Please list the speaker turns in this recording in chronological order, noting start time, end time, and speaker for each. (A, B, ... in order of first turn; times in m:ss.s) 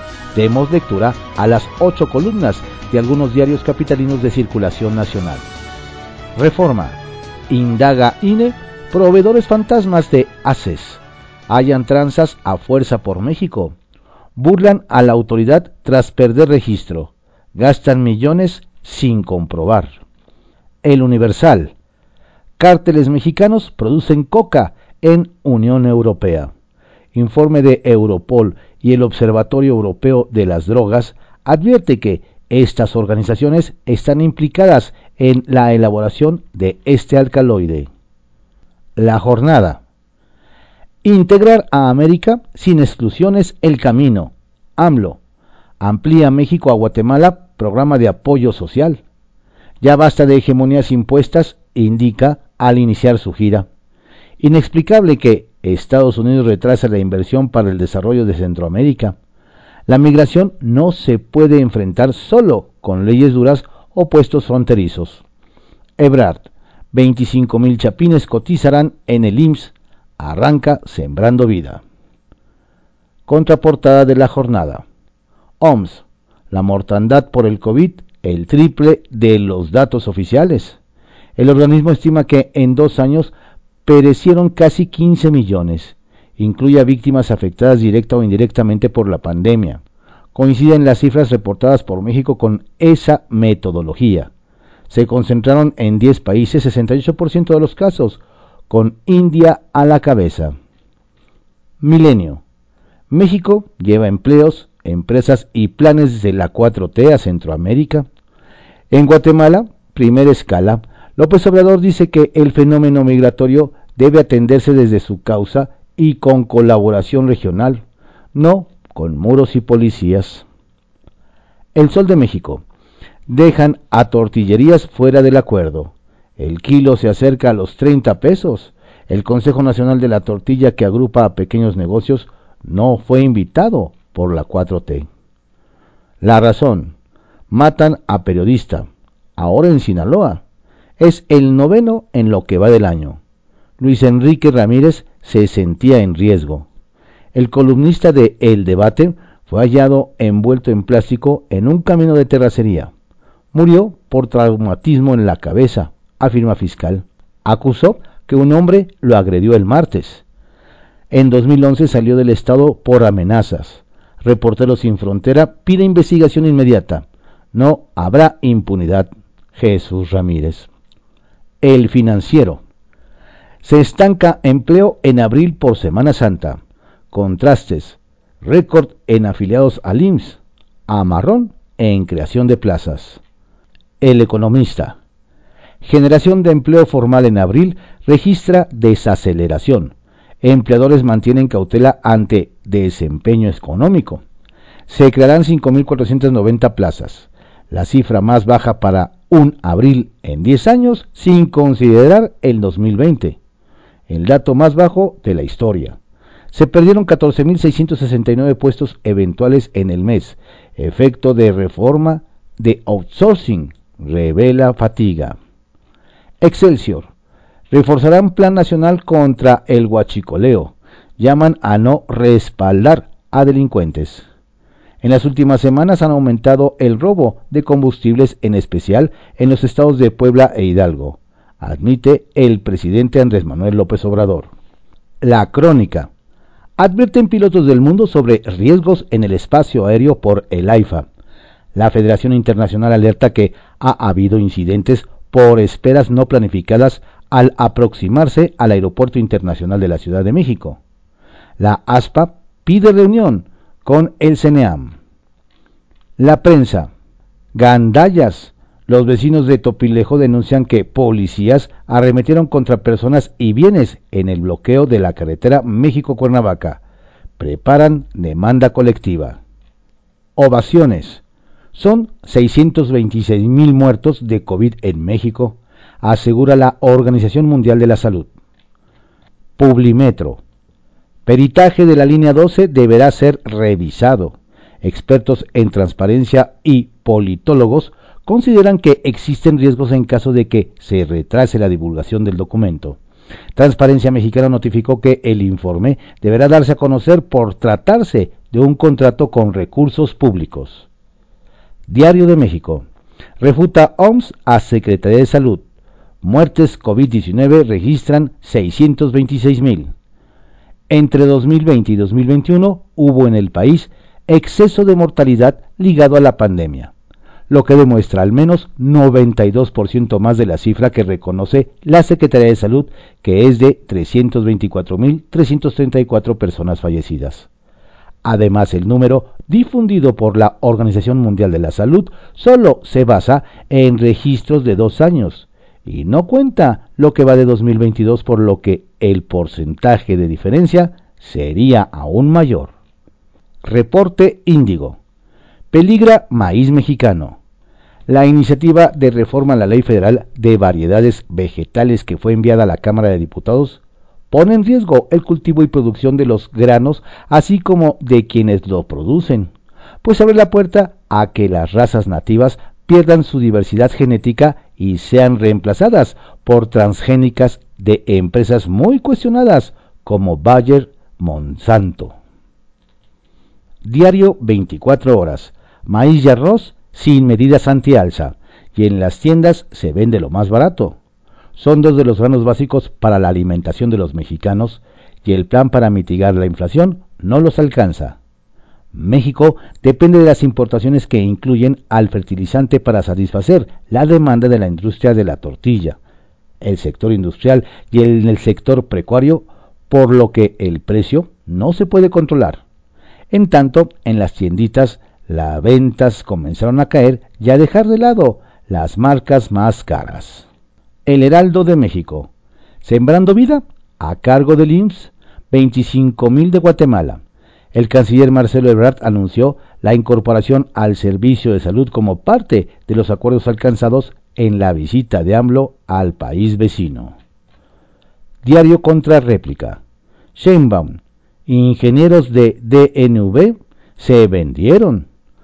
0:00.3-0:05.5 A
0:06.4-0:13.8 A
0:14.4-0:20.0 A
0:20.8-0:21.7 A
0:22.6-0:26.5 A
0:27.1-0:37.9 A
0:39.0-0:39.8 A
0:41.0-0:45.2 A
0:45.8-0:49.0 A
0:49.8-0:53.7 A
0:54.4-0:59.2 A
0:59.9-1:05.2 A
1:06.0-1:11.8 A
1:13.3-1:14.8 A
1:15.6-1:20.8 A
1:21.4-1:23.3 A
1:23.8-1:29.8 A
1:30.3-1:34.3 A
1:34.9-1:40.5 A
1:41.8-1:42.4 A
1:43.1-1:48.1 A
1:48.9-2:00.4 A
2:01.8-2:02.6 A
2:03.3-2:15.1 A
2:16.2-2:17.0 A
2:17.5-2:20.4 A
2:21.0-2:23.2 A
2:23.8-2:26.7 A
2:27.3-2:32.9 A
2:33.5-2:40.2 A
2:41.1-2:50.7 A
2:51.6-2:52.6 A
2:53.6-3:03.2 A
3:04.0-3:05.0 A
3:05.8-3:14.2 A
3:14.9-3:23.4 A
3:24.1-3:26.0 A
3:26.5-3:35.4 A
3:36.4-3:37.1 A
3:37.7-3:44.3 A
3:45.0-3:54.5 A
3:55.2-3:56.1 A
3:56.8-4:01.1 A
4:01.7-4:10.8 A
4:11.6-4:15.0 A
4:16.2-4:16.9 A
4:17.5-4:26.8 A
4:27.4-4:29.4 A
4:30.4-4:31.2 A
4:31.7-4:38.3 A
4:39.6-4:40.4 A
4:41.3-4:53.0 A
4:53.6-5:00.9 A
5:01.9-5:02.9 A
5:03.4-5:05.6 A
5:06.2-5:09.9 A
5:10.9-5:16.9 A
5:17.5-5:27.5 A
5:28.2-5:42.8 A
5:43.6-5:45.0 A
5:45.7-5:47.4 A
5:48.1-5:59.5 A
6:00.0-6:12.2 A
6:13.8-6:21.0 A
6:21.6-6:28.2 A
6:28.9-6:36.0 A
6:36.6-6:42.6 A
6:43.3-6:50.5 A
6:51.1-6:52.3 A
6:52.8-6:57.2 A
6:57.7-7:07.2 A
7:08.4-7:09.8 A
7:10.4-7:15.1 A